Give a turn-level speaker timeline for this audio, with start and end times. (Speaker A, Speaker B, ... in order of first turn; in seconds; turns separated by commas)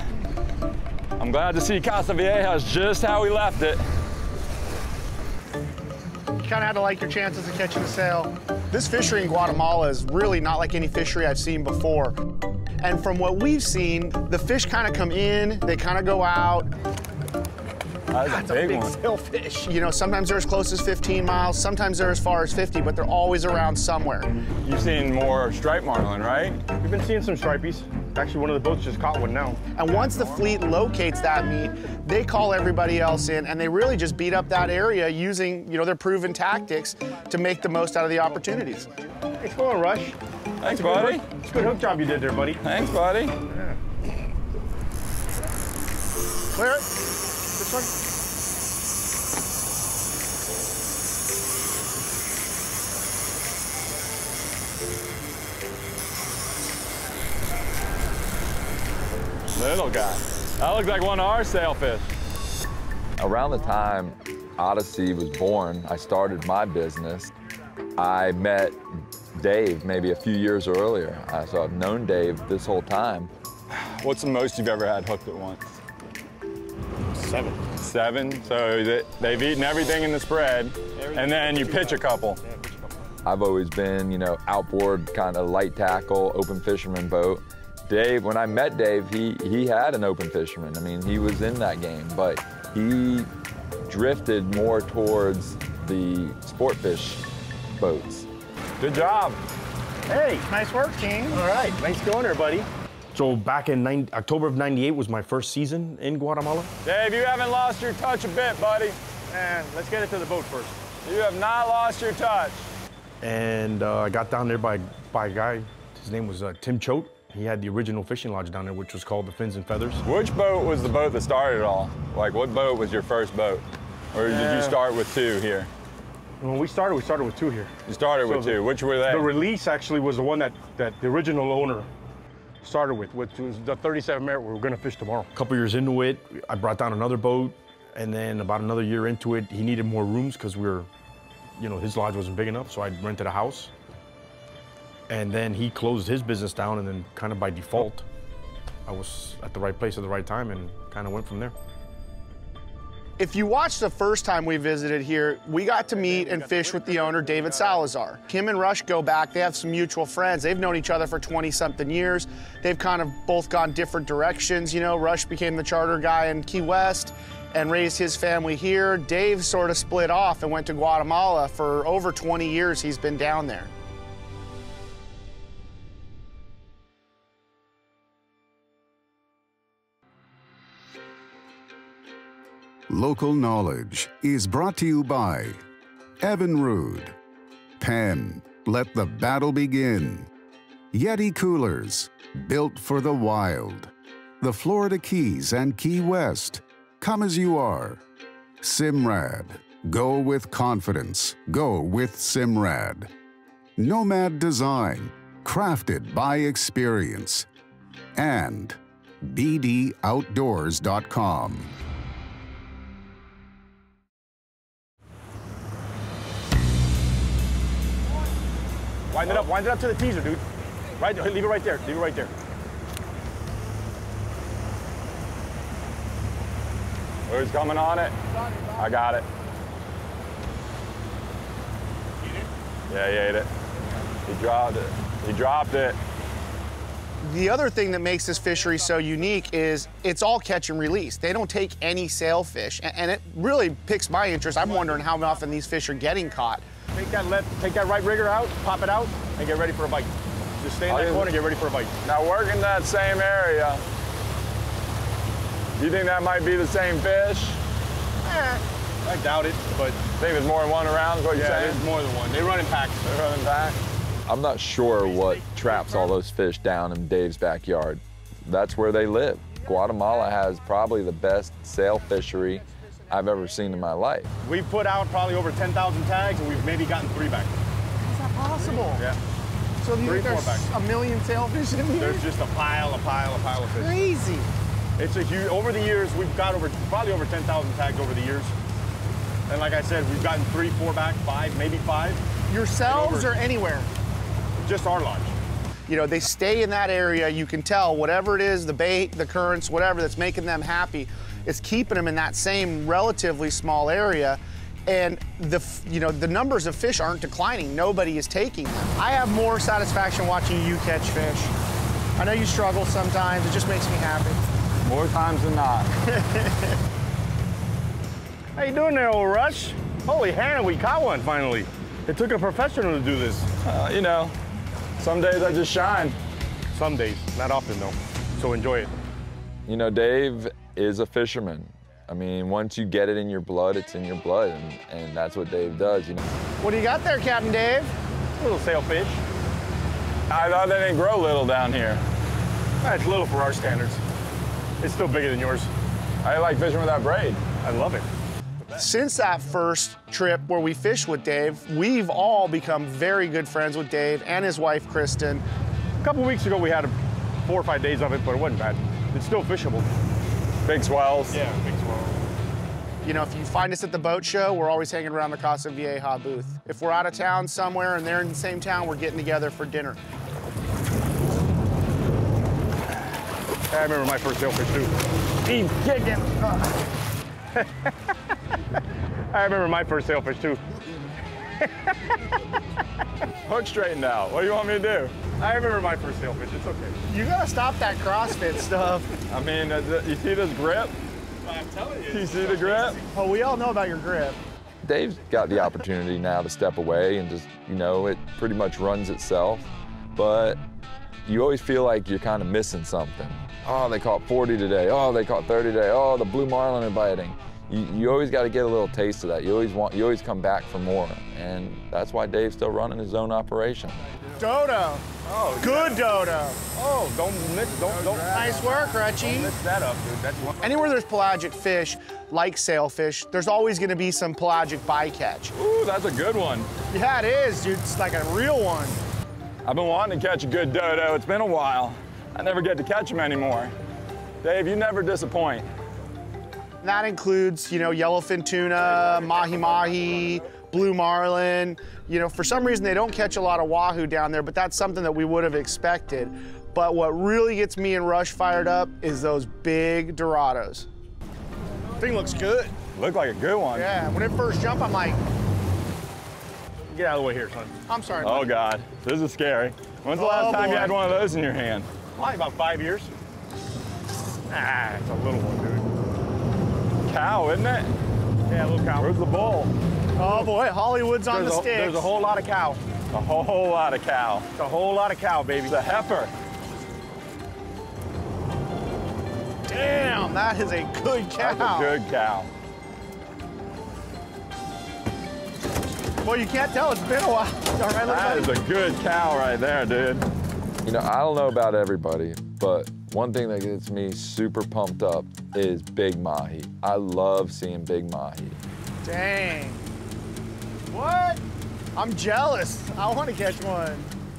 Speaker A: 1.2-3.8, Speaker B: 6.4-12.2, Speaker B: 12.8-16.7, Speaker A: 18.1-19.0, Speaker B: 18.2-24.4, Speaker A: 24.6-26.6, Speaker C: 26.8-29.6, Speaker B: 29.7-38.9, Speaker C: 39.4-42.6, Speaker A: 40.6-41.3, Speaker A: 42.6-43.4, Speaker C: 43.5-43.8, Speaker B: 46.5-46.9, Speaker B: 47.6-47.9, Speaker A: 59.5-62.1, Speaker D: 63.2-67.3, Speaker D: 68.0-68.8, Speaker D: 69.3-73.3, Speaker A: 73.7-75.8, Speaker C: 77.1-77.7, Speaker A: 77.8-82.4, Speaker C: 81.0-83.1, Speaker D: 83.2-93.3, Speaker D: 93.8-97.2, Speaker D: 97.8-98.3, Speaker A: 98.8-99.4, Speaker C: 100.1-100.5, Speaker B: 100.5-101.4, Speaker C: 101.3-106.7, Speaker A: 106.8-109.0, Speaker C: 109.3-110.8, Speaker A: 111.0-112.7, Speaker C: 113.2-120.0, Speaker A: 120.0-125.7, Speaker C: 124.2-124.8, Speaker C: 126.4-131.9, Speaker A: 127.9-129.3, Speaker C: 132.6-140.9, Speaker C: 141.6-143.7, Speaker C: 145.1-148.1, Speaker C: 148.9-151.6, Speaker B: 153.2-173.7, Speaker C: 155.9-157.8, Speaker E: 182.9-185.6, Speaker E: 186.2-187.2, Speaker E: 187.8-190.3, Speaker E: 190.9-198.0, Speaker E: 198.6-203.1, Speaker E: 203.8-207.5, Speaker E: 208.2-211.7, Speaker C: 219.1-220.4, Speaker C: 221.0-222.3, Speaker A: 227.3-228.2, Speaker A: 228.8-229.3, Speaker A: 232.9-233.5, Speaker A: 234.2-236.0, Speaker B: 237.2-246.7, Speaker C: 246.9-251.9, Speaker A: 250.9-251.3, Speaker A: 252.0-253.8, Speaker A: 255.8-257.6, Speaker C: 258.2-260.0, Speaker A: 260.2-261.8, Speaker C: 261.3-263.0, Speaker A: 263.0-263.8, Speaker D: 264.3-274.4, Speaker C: 274.4-277.6, Speaker B: 278.0-279.0, Speaker C: 278.9-279.2, Speaker B: 279.8-282.3, Speaker C: 280.0-280.7, Speaker C: 282.0-284.0, Speaker B: 283.7-284.5, Speaker C: 285.0-288.5, Speaker C: 289.5-292.2, Speaker B: 292.5-293.9, Speaker C: 292.9-293.3, Speaker C: 294.6-295.4, Speaker B: 295.9-311.5, Speaker B: 312.2-314.4, Speaker A: 314.8-315.9, Speaker B: 316.1-316.8, Speaker C: 318.6-323.5, Speaker A: 323.6-324.4, Speaker A: 325.0-326.2, Speaker C: 326.7-328.9, Speaker D: 329.7-336.2, Speaker B: 336.6-337.9, Speaker C: 338.4-339.2, Speaker A: 340.3-342.0, Speaker C: 342.8-344.0, Speaker C: 344.8-345.7, Speaker A: 346.2-347.4, Speaker C: 347.6-348.1, Speaker B: 348.7-355.4, Speaker C: 356.0-359.9, Speaker A: 360.6-361.4, Speaker C: 361.3-362.2, Speaker B: 363.0-370.0, Speaker C: 373.7-374.9, Speaker A: 375.4-376.6, Speaker C: 377.5-377.9, Speaker C: 379.3-380.6, Speaker C: 381.6-381.9, Speaker A: 383.4-385.1, Speaker C: 385.4-387.0, Speaker B: 387.1-389.1, Speaker A: 389.3-390.9, Speaker C: 391.4-393.1, Speaker A: 392.1-393.0, Speaker B: 393.1-394.4, Speaker D: 394.8-400.6, Speaker D: 401.3-414.0, Speaker B: 414.4-416.6, Speaker C: 415.2-416.0, Speaker C: 416.7-418.3, Speaker A: 417.7-419.0, Speaker B: 418.3-419.6, Speaker C: 419.3-420.6, Speaker B: 420.6-425.5, Speaker A: 425.5-426.7, Speaker B: 426.9-429.0, Speaker A: 429.6-433.7, Speaker A: 434.4-435.7, Speaker B: 436.8-450.9, Speaker C: 452.0-452.8, Speaker A: 452.9-453.9, Speaker B: 453.7-455.2, Speaker C: 456.9-457.7, Speaker B: 457.9-458.5, Speaker A: 458.2-461.9, Speaker B: 460.1-461.0, Speaker C: 460.5-460.9, Speaker C: 462.1-463.1, Speaker C: 464.5-465.9, Speaker A: 467.1-467.9, Speaker C: 468.5-469.1, Speaker A: 469.0-469.7, Speaker B: 470.2-472.1, Speaker C: 471.3-472.8, Speaker A: 473.1-474.5, Speaker C: 474.6-475.8, Speaker A: 475.7-476.3, Speaker B: 479.7-482.0, Speaker A: 481.4-482.5, Speaker B: 486.2-488.5, Speaker A: 488.1-490.3, Speaker D: 490.9-498.6, Speaker B: 499.0-499.9, Speaker B: 500.9-501.4, Speaker B: 501.9-504.1